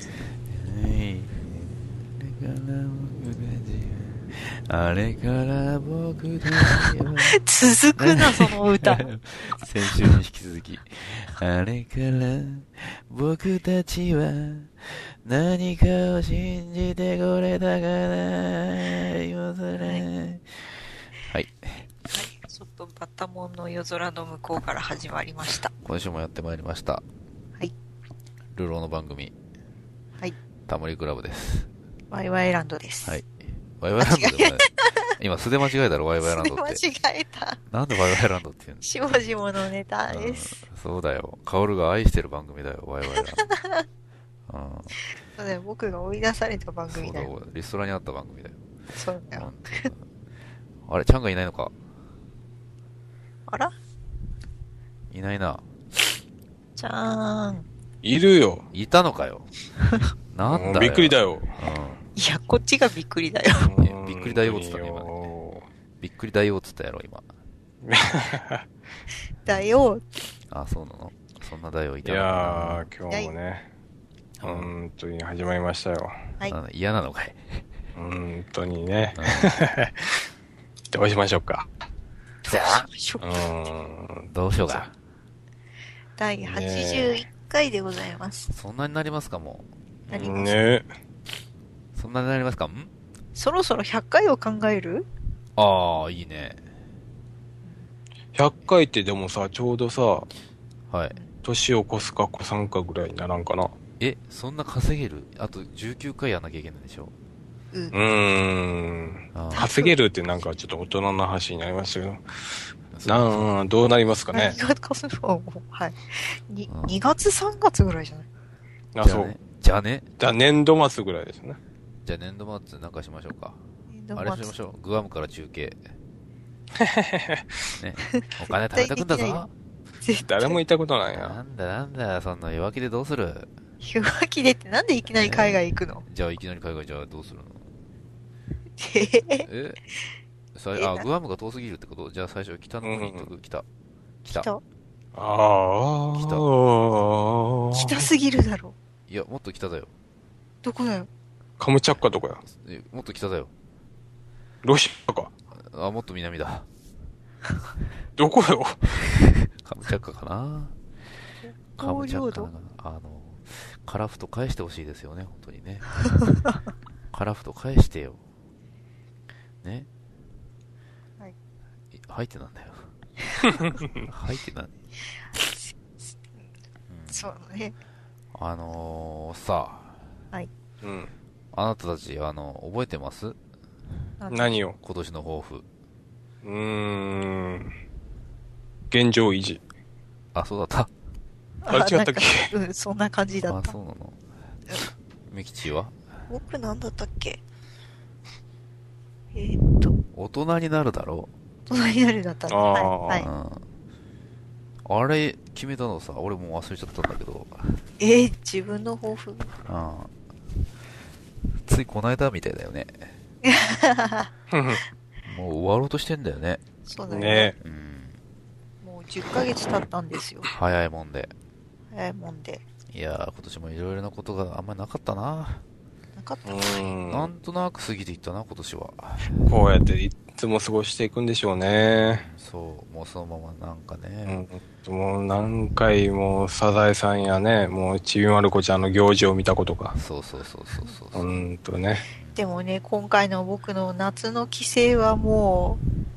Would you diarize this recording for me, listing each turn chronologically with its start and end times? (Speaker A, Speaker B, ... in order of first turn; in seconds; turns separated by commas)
Speaker A: 0.2-7.4, Speaker B: 6.7-9.6, Speaker A: 8.0-20.6, Speaker B: 19.8-20.1, Speaker A: 21.2-21.9, Speaker B: 22.1-25.7, Speaker A: 25.8-27.0, Speaker A: 28.5-29.3, Speaker A: 30.7-31.7, Speaker B: 32.1-33.1, Speaker A: 33.1-36.8, Speaker B: 34.0-35.1, Speaker B: 36.2-37.6, Speaker A: 37.7-38.9, Speaker B: 38.8-40.6, Speaker A: 40.1-43.4, Speaker B: 43.1-43.9, Speaker A: 44.5-45.0, Speaker B: 45.0-47.3, Speaker A: 46.9-48.6, Speaker B: 48.9-49.9, Speaker A: 49.4-50.0, Speaker A: 50.9-51.8, Speaker B: 53.5-53.7, Speaker A: 55.1-55.6, Speaker B: 56.8-57.7, Speaker C: 58.0-58.7, Speaker A: 58.7-59.5, Speaker A: 60.3-62.0, Speaker C: 60.4-61.5, Speaker B: 62.2-63.7, Speaker C: 63.6-65.7, Speaker A: 63.8-65.2, Speaker A: 66.0-67.2, Speaker C: 67.8-68.7, Speaker B: 69.5-70.0, Speaker A: 70.5-72.9, Speaker C: 72.0-73.7, Speaker A: 74.4-74.7, Speaker C: 74.4-76.3, Speaker A: 76.5-77.7, Speaker C: 78.0-80.2, Speaker A: 79.2-79.6, Speaker C: 80.9-81.7, Speaker B: 82.5-83.3, Speaker A: 82.5-82.8, Speaker C: 83.2-84.9, Speaker A: 84.3-84.9, Speaker B: 86.2-88.5, Speaker C: 86.4-87.2, Speaker A: 88.5-90.3, Speaker B: 90.1-90.5, Speaker C: 90.1-90.9, Speaker A: 92.0-92.9, Speaker B: 93.3-95.1, Speaker A: 95.6-96.6, Speaker C: 98.3-100.3, Speaker A: 100.9-101.2, Speaker C: 101.4-103.8, Speaker A: 104.0-107.1, Speaker C: 107.9-112.2, Speaker A: 109.3-109.7, Speaker B: 109.5-109.9, Speaker A: 112.9-113.4, Speaker C: 113.0-114.6, Speaker B: 114.3-118.3, Speaker A: 116.7-117.0, Speaker C: 119.0-119.3, Speaker A: 119.0-120.1, Speaker C: 120.2-121.6, Speaker A: 122.0-123.6, Speaker B: 123.9-124.5, Speaker A: 124.2-125.8, Speaker C: 126.8-127.5, Speaker A: 127.8-129.5, Speaker B: 128.1-129.4, Speaker B: 130.0-130.6, Speaker C: 130.3-131.4, Speaker A: 131.1-133.5, Speaker B: 133.8-136.0, Speaker A: 135.1-137.7, Speaker B: 138.8-139.5, Speaker A: 139.4-139.8, Speaker A: 140.6-143.7, Speaker B: 140.8-141.1, Speaker C: 142.8-143.3, Speaker A: 144.2-144.5, Speaker B: 144.3-144.6, Speaker C: 145.2-148.1, Speaker A: 146.2-146.5, Speaker B: 147.8-148.8, Speaker A: 149.1-149.9, Speaker B: 150.6-151.1, Speaker C: 151.6-152.4, Speaker A: 152.5-153.5, Speaker C: 154.6-155.3, Speaker A: 155.6-156.7, Speaker C: 158.2-158.8, Speaker A: 158.9-160.8, Speaker B: 161.4-162.5, Speaker A: 161.8-166.1, Speaker A: 167.1-168.2, Speaker A: 169.6-169.9, Speaker A: 171.9-172.9, Speaker C: 173.4-173.9, Speaker A: 174.1-174.7, Speaker A: 176.9-177.3, Speaker B: 177.1-177.8, Speaker A: 178.3-180.0, Speaker C: 180.8-181.1, Speaker A: 181.5-183.4, Speaker B: 184.2-184.6, Speaker C: 184.3-184.8, Speaker A: 184.8-185.7, Speaker C: 186.4-187.8, Speaker C: 188.9-189.6, Speaker A: 190.3-190.9, Speaker B: 191.7-193.8, Speaker C: 191.7-192.5, Speaker A: 193.5-194.2, Speaker A: 195.3-195.9, Speaker B: 196.3-197.4, Speaker B: 199.3-199.9, Speaker A: 200.1-201.3, Speaker B: 201.7-203.3, Speaker C: 202.5-203.2, Speaker A: 203.2-203.6, Speaker A: 204.8-207.8, Speaker B: 208.0-209.5, Speaker A: 209.7-210.1, Speaker A: 211.6-213.1, Speaker B: 213.4-214.3, Speaker C: 214.5-214.8, Speaker A: 215.2-216.6, Speaker B: 216.9-217.5, Speaker C: 217.1-217.6, Speaker A: 217.6-218.2, Speaker B: 218.8-220.5, Speaker A: 220.5-221.3, Speaker B: 221.9-222.6, Speaker A: 222.9-225.6, Speaker B: 226.2-226.7, Speaker C: 226.5-227.3, Speaker A: 227.1-229.4, Speaker C: 229.4-232.2, Speaker A: 232.1-234.4, Speaker C: 234.3-240.0, Speaker A: 239.9-241.4, Speaker C: 241.1-242.0, Speaker A: 242.2-242.4, Speaker B: 242.4-245.8